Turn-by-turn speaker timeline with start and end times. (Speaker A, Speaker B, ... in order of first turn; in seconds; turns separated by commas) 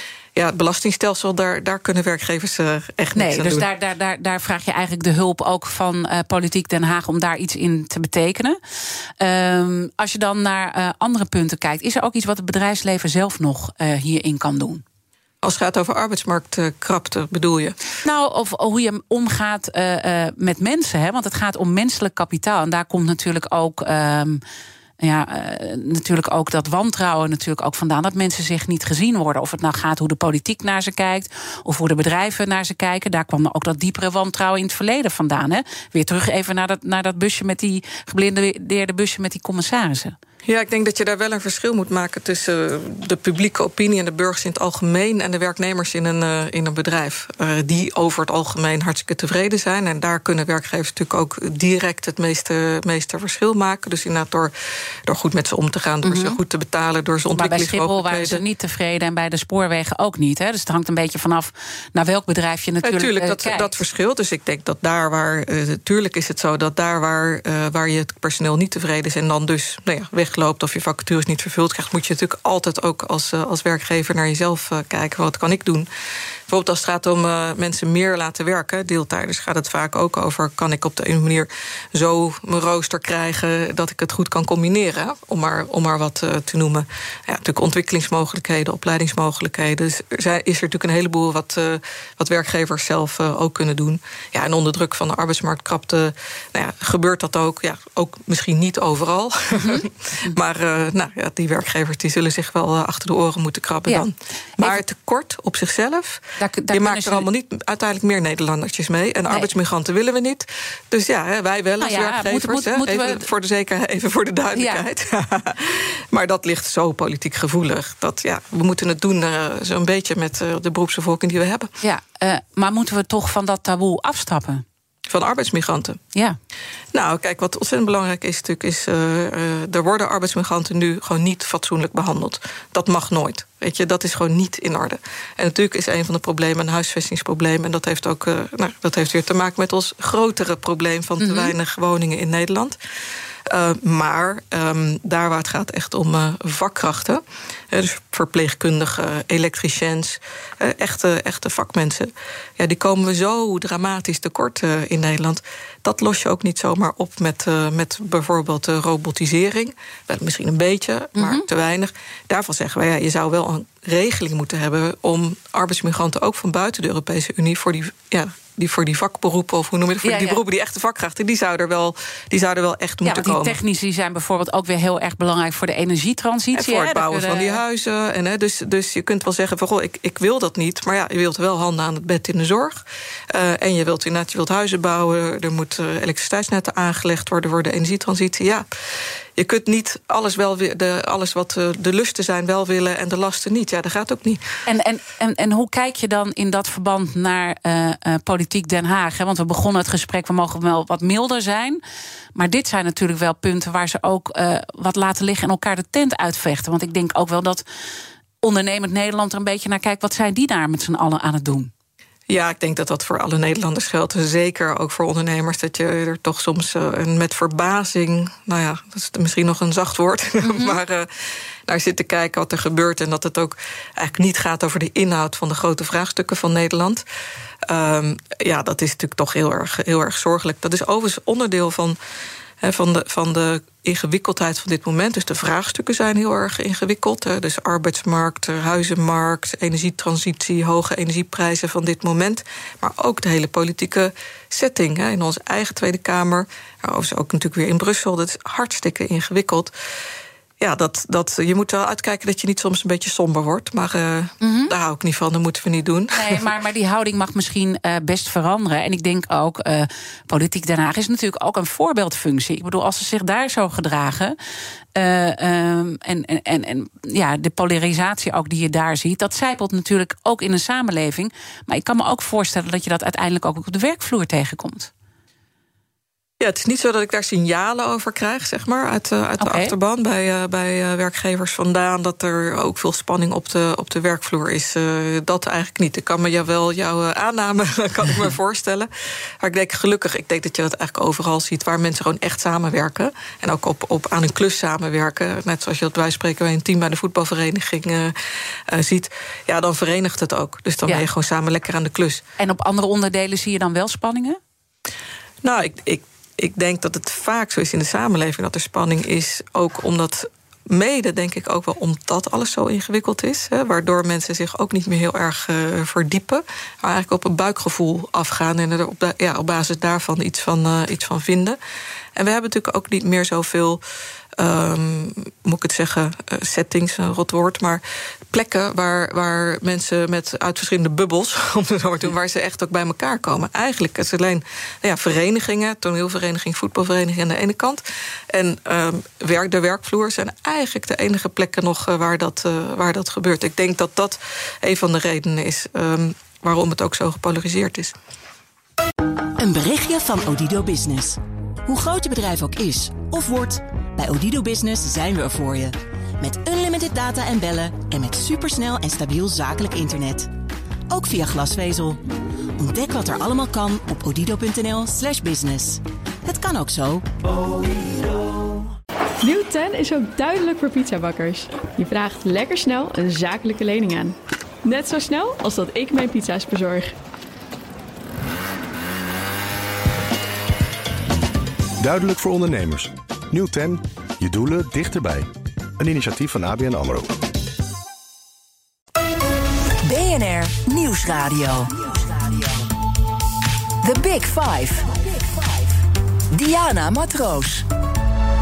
Speaker A: 0.3-3.6, Speaker B: 3.1-8.6, Speaker B: 9.2-14.8, Speaker A: 15.4-17.8, Speaker B: 18.0-24.4, Speaker B: 25.0-40.1, Speaker A: 40.4-54.5, Speaker A: 55.0-58.4, Speaker B: 56.0-56.4, Speaker B: 57.4-63.7, Speaker A: 62.8-75.9, Speaker A: 76.5-121.7, Speaker B: 99.5-100.3, Speaker B: 106.4-107.2, Speaker B: 111.8-113.2, Speaker B: 114.5-114.8, Speaker B: 121.8-124.6, Speaker A: 125.1-126.0, Speaker A: 126.9-142.8, Speaker B: 141.2-141.5, Speaker A: 143.5-173.6, Speaker B: 161.2-161.4, Speaker B: 170.0-170.4, Speaker B: 173.0-177.6, Speaker A: 176.5-188.7, Speaker A: 189.3-194.4, Speaker B: 194.7-201.8, Speaker B: 202.3-207.6, Speaker B: 208.4-211.7, Speaker A: 212.3-221.1, Speaker B: 220.4-220.8, Speaker A: 221.7-227.0, Speaker A: 227.7-232.0, Speaker A: 232.6-249.7, Speaker A: 250.6-256.4, Speaker B: 254.4-254.7, Speaker B: 256.1-264.4, Speaker B: 264.9-274.9, Speaker A: 276.4-288.9, Speaker B: 279.4-279.7, Speaker A: 289.4-298.1, Speaker A: 298.7-302.2, Speaker B: 302.4-304.4, Speaker A: 305.4-321.6, Speaker A: 322.1-323.8, Speaker A: 324.4-347.9, Speaker C: 349.4-360.3, Speaker C: 360.9-362.0, Speaker C: 362.6-367.1, Speaker D: 369.2-376.9, Speaker E: 381.8-387.2, Speaker F: 389.8-392.7, Speaker F: 393.8-397.6